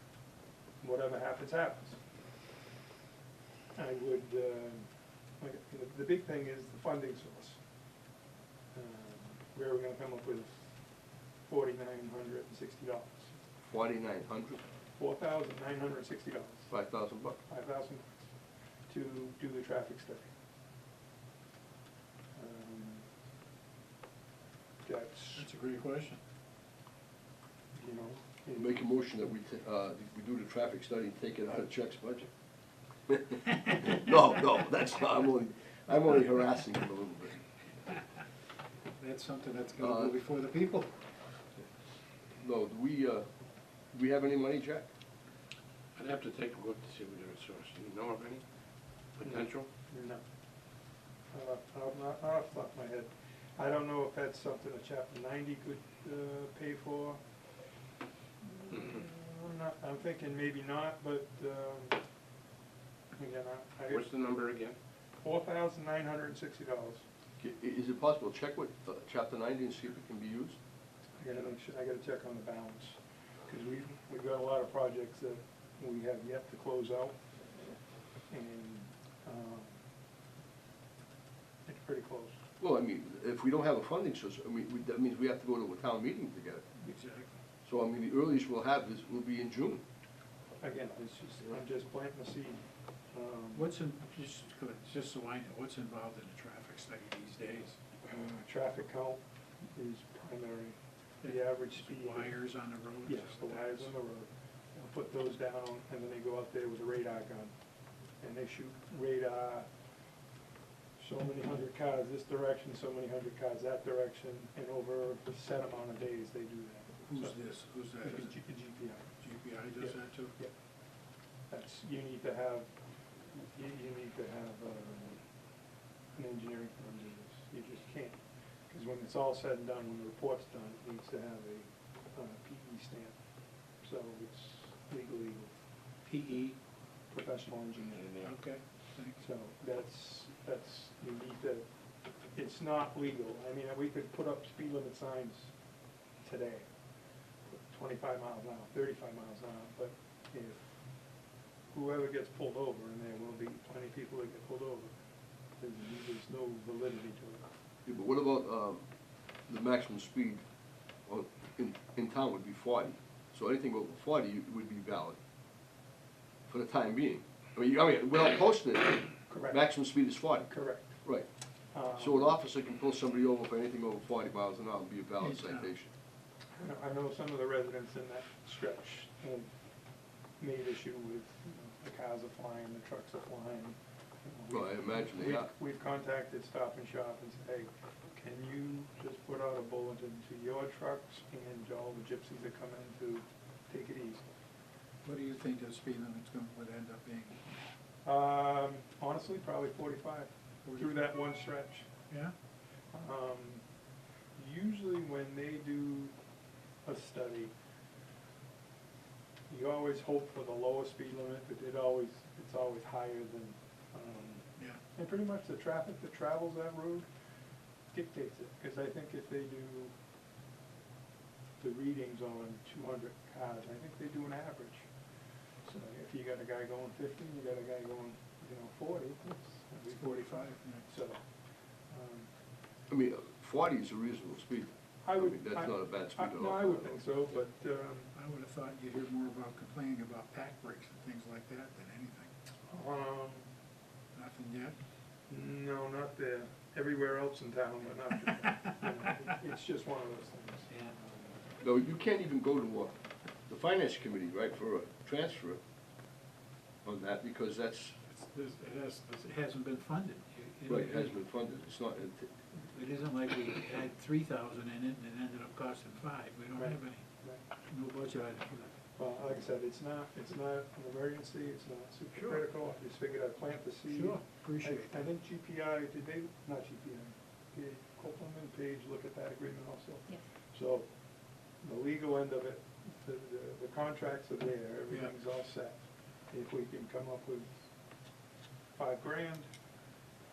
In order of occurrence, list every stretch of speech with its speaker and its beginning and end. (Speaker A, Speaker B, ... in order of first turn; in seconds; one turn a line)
Speaker A: 0.8-2.0
Speaker A: 3.7-7.6
Speaker A: 8.7-10.7
Speaker A: 11.4-13.3
Speaker B: 13.6-14.6
Speaker A: 14.9-16.7
Speaker B: 16.7-17.4
Speaker A: 17.5-18.1
Speaker A: 18.9-20.3
Speaker A: 22.4-23.1
Speaker A: 24.8-25.5
Speaker C: 25.3-26.2
Speaker A: 27.7-28.7
Speaker B: 28.6-32.3
Speaker B: 33.1-37.4
Speaker C: 39.0-40.9
Speaker B: 39.8-40.1
Speaker B: 42.4-43.2
Speaker B: 43.9-44.9
Speaker D: 45.9-48.4
Speaker D: 49.1-49.7
Speaker A: 49.2-50.2
Speaker A: 51.3-57.2
Speaker A: 58.5-62.0
Speaker A: 63.1-64.3
Speaker D: 63.9-64.8
Speaker A: 65.2-67.0
Speaker B: 67.4-70.6
Speaker A: 71.2-77.2
Speaker A: 78.3-79.8
Speaker A: 81.7-82.4
Speaker B: 82.6-86.6
Speaker C: 86.8-87.3
Speaker B: 87.6-89.8
Speaker A: 90.6-93.7
Speaker C: 93.5-97.8
Speaker A: 98.0-102.3
Speaker C: 101.2-103.9
Speaker A: 103.0-107.5
Speaker A: 108.2-109.7
Speaker A: 111.0-117.4
Speaker C: 117.0-118.4
Speaker A: 118.0-119.1
Speaker C: 119.2-120.3
Speaker A: 119.8-120.5
Speaker A: 121.5-122.7
Speaker A: 123.3-125.2
Speaker A: 126.1-133.2
Speaker A: 133.8-135.5
Speaker C: 136.1-136.6
Speaker A: 137.1-138.1
Speaker D: 138.0-138.3
Speaker C: 138.2-139.2
Speaker A: 139.2-141.7
Speaker A: 142.3-145.5
Speaker A: 146.2-146.7
Speaker A: 147.4-150.8
Speaker A: 151.7-154.9
Speaker A: 155.6-157.5
Speaker B: 157.8-158.8
Speaker B: 159.4-160.4
Speaker B: 161.0-165.2
Speaker B: 166.5-171.3
Speaker A: 169.3-169.6
Speaker A: 170.5-171.0
Speaker A: 171.7-172.4
Speaker B: 171.9-175.9
Speaker C: 175.2-175.7
Speaker A: 176.6-179.5
Speaker A: 180.4-194.2
Speaker B: 184.5-185.5
Speaker C: 195.0-197.4
Speaker A: 198.0-201.8
Speaker C: 200.6-200.9
Speaker C: 202.1-202.3
Speaker A: 202.9-203.6
Speaker A: 204.3-206.2
Speaker A: 206.8-207.5
Speaker A: 209.5-217.1
Speaker A: 217.9-219.9
Speaker A: 221.6-224.9
Speaker A: 225.6-231.2
Speaker C: 230.0-230.9
Speaker A: 231.9-232.3
Speaker B: 232.9-236.9
Speaker A: 235.0-238.1
Speaker C: 238.1-242.3
Speaker A: 242.7-243.5
Speaker C: 244.1-244.8
Speaker A: 245.3-250.7
Speaker C: 250.7-251.0
Speaker B: 251.6-252.9
Speaker B: 253.5-255.6
Speaker B: 256.8-258.0
Speaker C: 258.1-261.1
Speaker B: 260.7-262.3
Speaker C: 262.5-267.0
Speaker A: 266.6-267.4
Speaker C: 267.7-268.7
Speaker A: 269.0-280.9
Speaker C: 272.1-272.4
Speaker C: 273.9-275.1
Speaker A: 281.6-287.5
Speaker A: 288.8-289.5